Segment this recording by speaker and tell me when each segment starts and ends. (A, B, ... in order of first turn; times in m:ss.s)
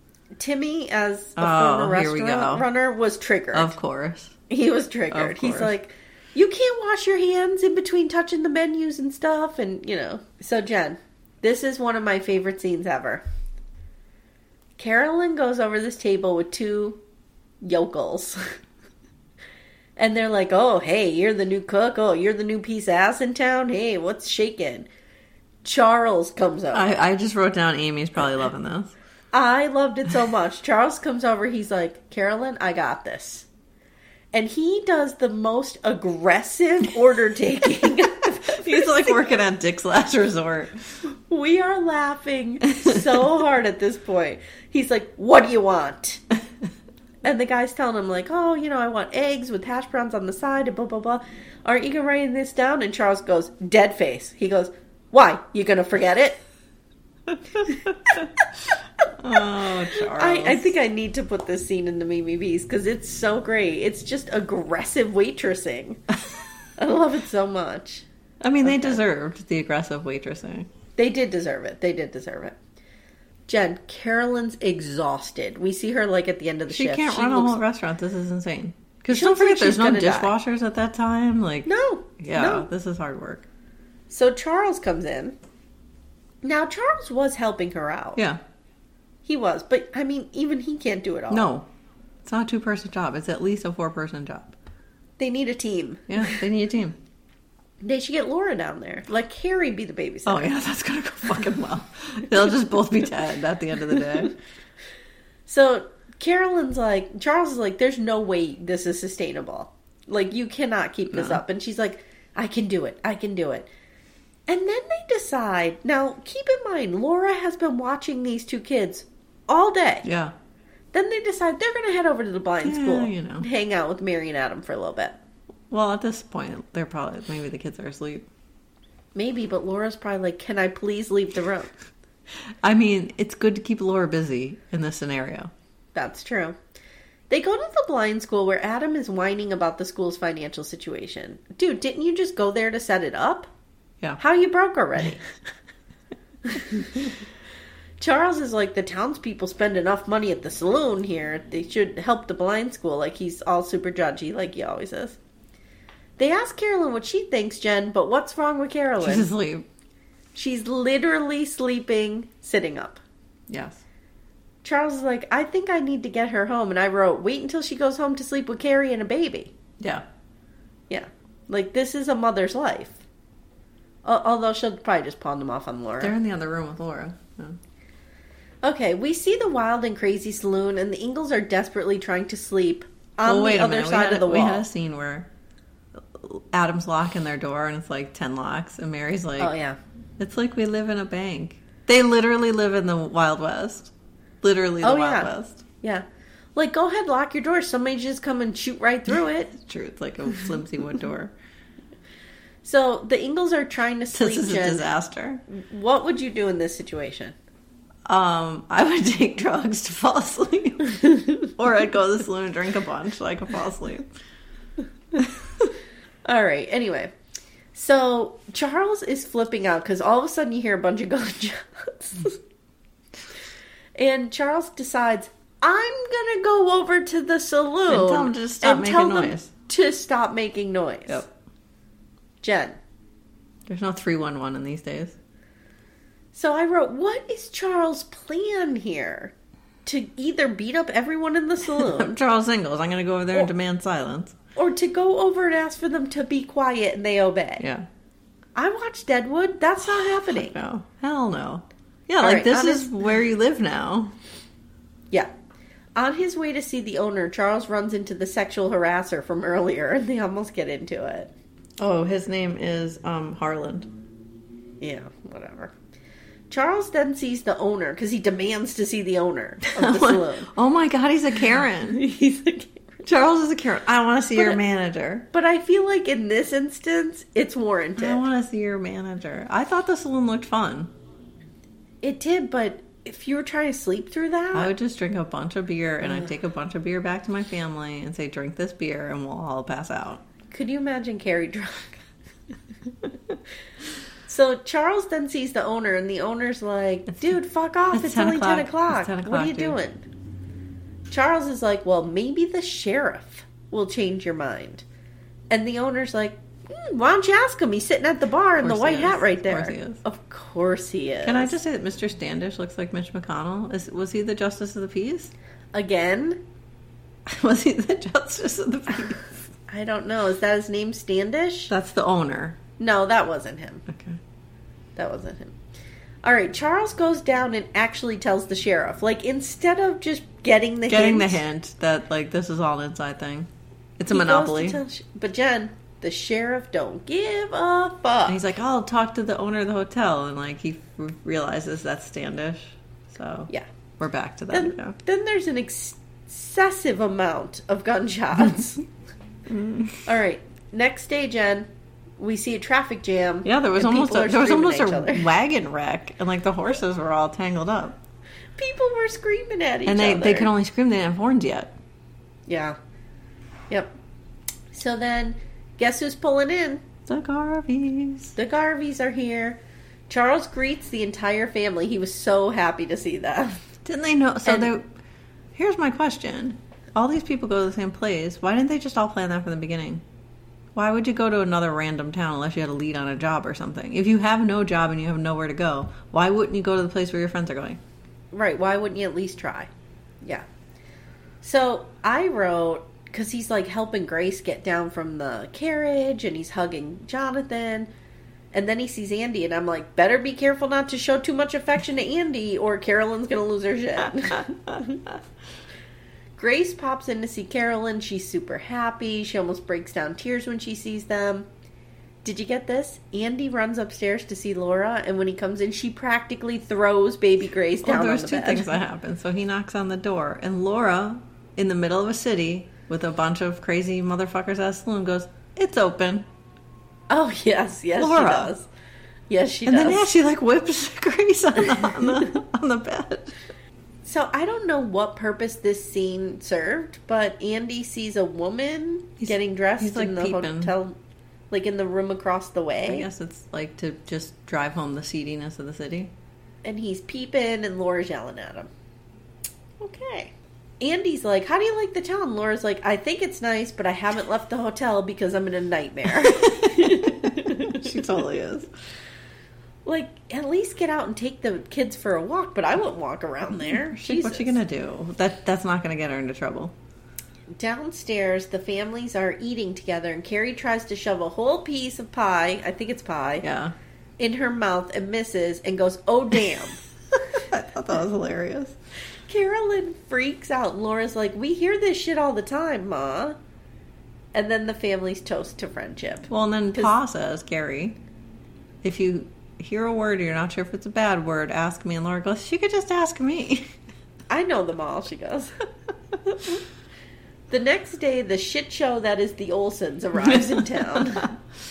0:00.4-0:03.7 A
0:01.4-0:02.7 B
0:03.5-0:04.3 B
0:04.5-0:13.2 A
0:05.1-0:05.7 B
0:14.8-0:17.0 A
0:17.6-0:18.5 A
0:20.0-0:24.9 A
0:25.6-0:26.9 A
0:26.7-0:28.9 B
0:29.3-0:33.4 A
0:34.3-0:39.3 A
0:38.5-0:40.8 B
0:41.3-0:46.2 A
0:42.8-0:43.2 B
0:47.2-0:56.4 A
0:57.6-0:57.9 B
0:59.2-1:00.7 B
1:00.1-1:06.0 A
1:06.8-1:08.0 A
1:08.4-1:10.7 B
1:08.6-1:09.0 A
1:11.0-1:12.5 A
1:13.5-1:17.6 A
1:16.7-1:23.4 B
1:19.1-1:20.3 A
1:21.6-1:22.7 A
1:24.1-1:25.4 A
1:26.4-1:28.2 A
1:29.2-1:31.5 A
1:31.3-1:31.6 B
1:32.2-1:34.5 B
1:35.2-1:36.4 A
1:36.1-1:37.0 B
1:37.8-1:40.5 A
1:40.2-1:44.3 B
1:45.5-1:53.7 A
1:51.1-1:51.4 B
1:54.5-2:00.0 A
2:00.0-2:00.3 B
2:00.9-2:05.2 A
2:02.6-2:03.5 B
2:05.7-2:08.2 B
2:09.1-2:11.7 A
2:12.6-2:15.5 B
2:15.9-2:16.6 A
2:17.3-2:23.5 A
2:24.2-2:25.2 A
2:28.0-2:35.2 A
2:36.2-2:39.3 A
2:39.0-2:39.6 B
2:40.3-2:43.0 A
2:43.5-2:43.8 B
2:44.6-2:49.5 A
2:50.9-2:53.0 A
2:54.0-2:56.1 A
2:56.0-2:57.6 B
2:58.6-3:04.6 A
3:03.2-3:05.3 B
3:06.1-3:09.5 B
3:09.4-3:09.8 A
3:10.2-3:15.6 B
3:14.8-3:15.3 A
3:15.8-3:19.5 A
3:19.5-3:21.3 B
3:22.6-3:24.8 A
3:24.1-3:25.4 B
3:25.5-3:27.3 A
3:28.0-3:34.1 B
3:36.2-3:37.1 A
3:37.7-3:42.4 A
3:44.0-3:51.2 A
3:47.9-3:49.5 B
3:52.4-3:52.8 A
3:53.7-3:55.1 B
3:56.3-3:59.3 A
3:59.8-4:02.2 A
4:01.7-4:04.3 B
4:04.6-4:07.6 A
4:07.6-4:07.8 B
4:08.5-4:10.5 A
4:10.3-4:14.1 B
4:12.2-4:12.9 A
4:16.0-4:21.3 A
4:21.8-4:23.9 B
4:24.8-4:25.7 A
4:26.5-4:30.5 A
4:29.7-4:32.0 B
4:31.9-4:32.8 A
4:33.0-4:35.2 B
4:35.3-4:38.2 A
4:38.0-4:40.9 B
4:42.0-4:44.7 A
4:44.5-4:50.2 B
4:46.0-4:46.3 A
4:50.5-4:52.0 A
4:54.3-5:00.0 A
4:57.9-4:59.8 B
5:01.1-5:04.8 A
5:05.5-5:11.6 A
5:08.6-5:10.0 B
5:11.2-5:15.3 B
5:15.7-5:16.4 A
5:17.3-5:19.3 B
5:19.7-5:21.7 A
5:21.7-5:22.6 B
5:22.8-5:23.8 A
5:23.9-5:24.2 B
5:25.0-5:25.5 A
5:26.2-5:31.4 A
5:30.9-5:33.5 B
5:34.0-5:34.8 B
5:34.1-5:38.4 A
5:38.3-5:45.0 B
5:44.5-5:48.8 A
5:49.5-5:50.0 B
5:50.0-5:55.3 A
5:53.4-5:58.0 B
5:58.6-6:00.5 A
5:59.8-6:01.7 B
6:02.5-6:02.8 A
6:04.7-6:06.8 A
6:07.1-6:08.3 B
6:08.4-6:13.6 A
6:13.8-6:14.8 B
6:15.5-6:20.0 B
6:20.7-6:27.8 B
6:28.3-6:29.7 A
6:31.4-6:37.9 A
6:38.5-6:45.0 A
6:46.4-6:51.5 A
6:52.2-6:58.7 A
6:57.8-7:06.2 B
7:07.1-7:08.7 A
7:08.0-7:08.5 B
7:09.3-7:10.1 A
7:09.7-7:13.4 B
7:14.0-7:21.0 A
7:19.2-7:20.7 B
7:21.5-7:23.1 A
7:22.8-7:26.1 B
7:26.6-7:28.7 A
7:29.8-7:38.0 A
7:36.4-7:38.7 B
7:39.8-7:44.6 A
7:43.7-7:46.7 B
7:47.5-7:53.4 A
7:53.4-7:53.7 B
7:54.2-7:56.8 A
7:57.4-7:58.7 B
7:59.3-8:03.4 A
8:04.3-8:06.9 A
8:06.3-8:08.0 B
8:08.8-8:13.6 B
8:14.3-8:15.5 A
8:16.3-8:16.6 A
8:17.5-8:21.3 A
8:20.2-8:21.1 B